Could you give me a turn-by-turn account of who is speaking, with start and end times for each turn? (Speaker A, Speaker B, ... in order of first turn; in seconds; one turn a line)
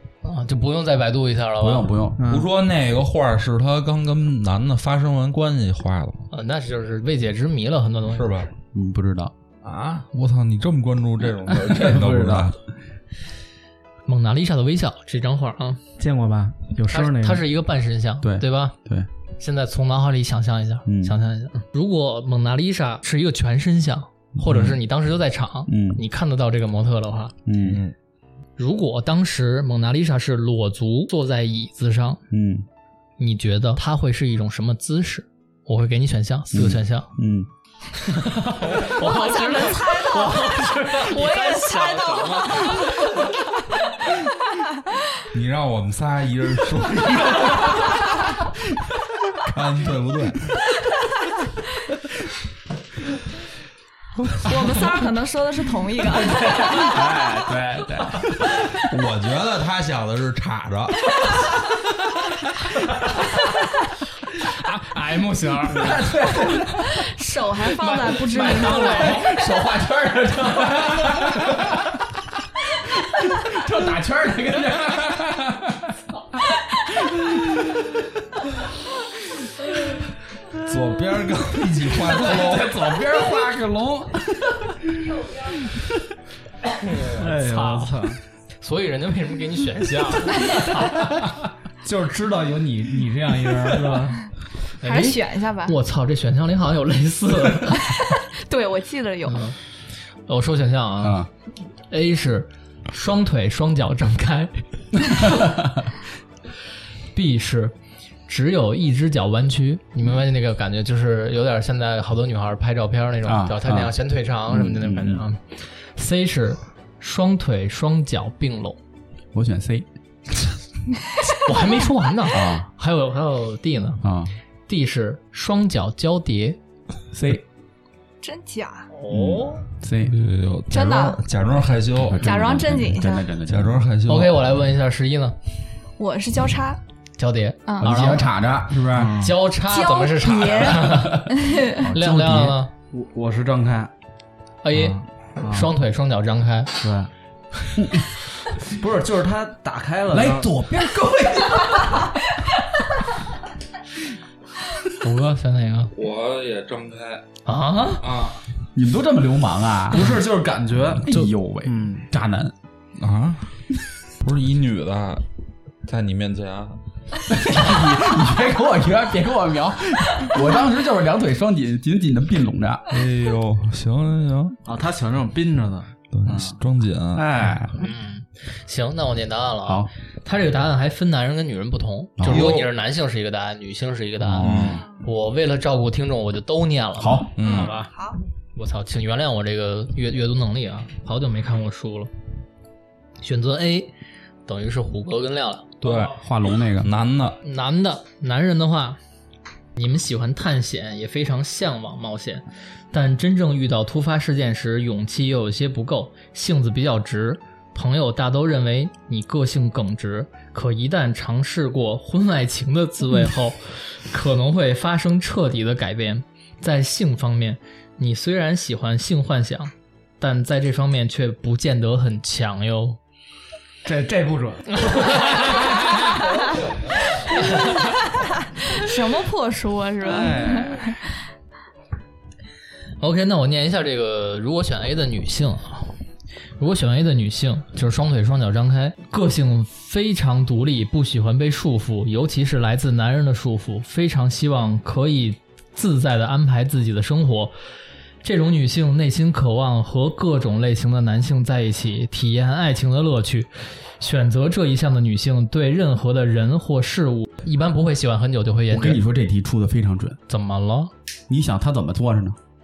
Speaker A: 0.2-1.9
Speaker B: 1.6-2.2
Speaker C: 2.2-2.5
Speaker D: 2.3-6.3
Speaker A: 6.3-8.3
Speaker D: 8.1-8.5
Speaker B: 8.7-9.3
Speaker D: 9.6-12.6
Speaker B: 11.5-12.5
Speaker A: 14.1-15.8
Speaker C: 16.0-17.4
Speaker A: 16.9-18.7
Speaker B: 18.2-19.1
Speaker A: 19.4-27.3
Speaker B: 20.9-21.1
Speaker B: 24.4-24.7
Speaker B: 25.7-26.0
Speaker B: 27.4-27.8
Speaker D: 27.6-27.9
Speaker A: 28.6-32.2
Speaker B: 32.3-32.6
Speaker A: 33.2-37.1
Speaker B: 36.5-37.5
Speaker A: 38.0-42.8
Speaker E: 38.8-43.0
Speaker D: 45.3-48.1
Speaker D: 49.3-50.5
Speaker E: 54.4-56.6
Speaker B: 56.3-58.3
Speaker D: 58.7-61.3
Speaker A: 64.6-65.9
Speaker B: 65.8-66.9
Speaker E: 66.8-69.3
Speaker B: 67.8-72.0
Speaker A: 68.3-69.2
Speaker B: 72.8-77.8
Speaker D: 80.5-82.8
Speaker B: 82.1-84.6
Speaker C: 87.1-88.2
Speaker A: 87.2-91.1
Speaker C: 91.8-94.2
Speaker A: 94.8-97.9
Speaker E: 94.8-95.8
Speaker E: 98.1-99.4
Speaker A: 99.2-99.6
Speaker A: 100.3-101.3
Speaker B: 101.0-101.3
Speaker A: 101.9-105.4
Speaker B: 105.3-105.7
Speaker A: 107.1-107.7
Speaker A: 108.3-118.8
Speaker B: 113.2-113.9
Speaker B: 114.5-115.2
Speaker B: 119.3-119.8
Speaker A: 121.3-124.0
Speaker B: 122.3-122.7
Speaker B: 124.0-124.3
Speaker A: 124.7-126.6
Speaker B: 127.1-127.4
Speaker E: 128.2-128.9
Speaker A: 128.9-129.7
Speaker B: 129.2-130.1
Speaker D: 130.0-132.3
Speaker E: 130.7-131.2
Speaker B: 132.0-133.8
Speaker E: 132.2-133.2
Speaker D: 133.5-134.4
Speaker A: 134.1-135.4
Speaker E: 136.0-136.8
Speaker A: 137.2-138.3
Speaker E: 137.7-138.0
Speaker B: 137.8-139.2
Speaker C: 138.9-139.4
Speaker A: 139.2-142.7
Speaker E: 139.6-141.8
Speaker B: 141.7-142.6
Speaker C: 142.9-143.9
Speaker A: 144.6-146.7
Speaker C: 144.8-145.7
Speaker C: 146.8-147.1
Speaker B: 147.8-148.0
Speaker C: 148.6-150.5
Speaker B: 150.1-152.1
Speaker A: 155.0-155.9
Speaker D: 155.9-157.2
Speaker A: 157.4-158.0
Speaker D: 158.0-158.4
Speaker B: 158.7-160.2
Speaker C: 159.9-162.0
Speaker B: 160.9-162.5
Speaker D: 163.0-163.5
Speaker D: 164.1-165.2
Speaker D: 165.8-166.8
Speaker B: 167.3-172.9
Speaker D: 172.9-174.6
Speaker C: 174.7-176.5
Speaker D: 176.1-177.3
Speaker B: 177.1-177.8
Speaker A: 177.8-187.9
Speaker B: 182.2-182.6
Speaker D: 182.2-182.7
Speaker B: 184.2-184.8
Speaker D: 184.4-184.9
Speaker B: 187.0-187.3
Speaker D: 187.4-187.7
Speaker E: 187.4-188.2
Speaker A: 188.6-192.1
Speaker A: 193.2-193.9
Speaker A: 194.4-195.8
Speaker D: 195.8-197.4
Speaker B: 195.8-196.9
Speaker A: 197.4-199.0
Speaker A: 199.8-223.0
Speaker C: 223.8-224.8
Speaker A: 224.7-226.1
Speaker E: 228.6-231.0
Speaker B: 230.1-230.9
Speaker A: 233.0-236.0
Speaker A: 236.6-247.5
Speaker A: 248.2-259.0
Speaker B: 258.7-260.2
Speaker A: 260.3-260.9
Speaker B: 261.3-262.4